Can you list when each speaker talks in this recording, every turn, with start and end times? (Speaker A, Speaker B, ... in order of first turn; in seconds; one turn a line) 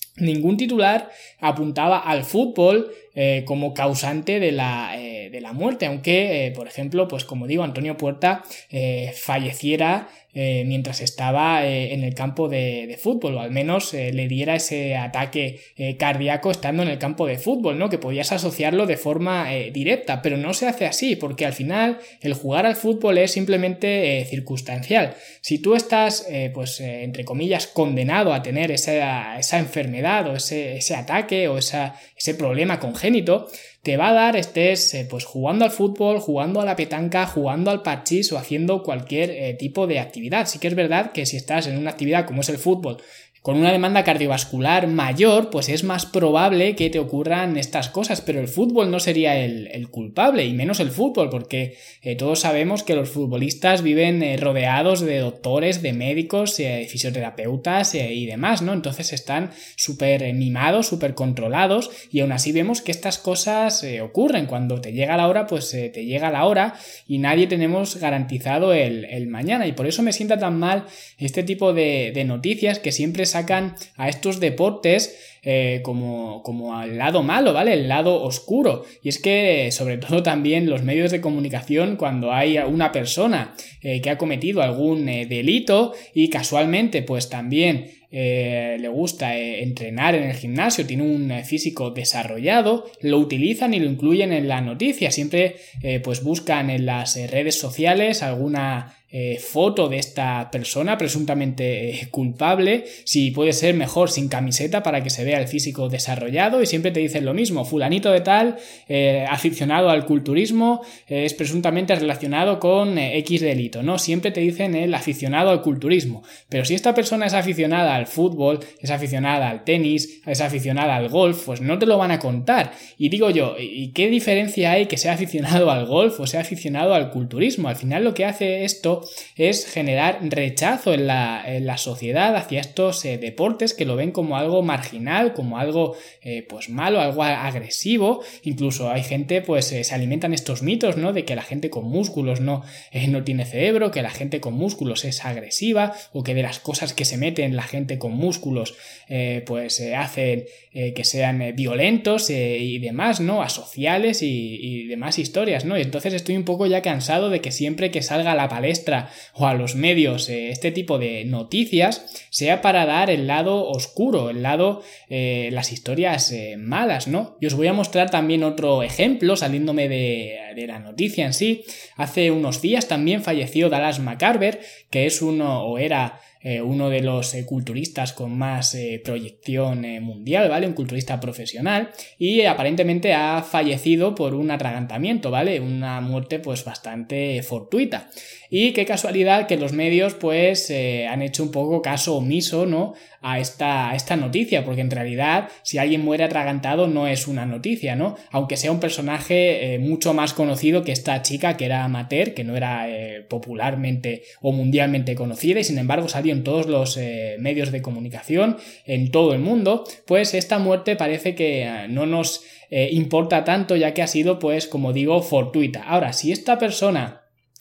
Speaker A: 0.2-217.2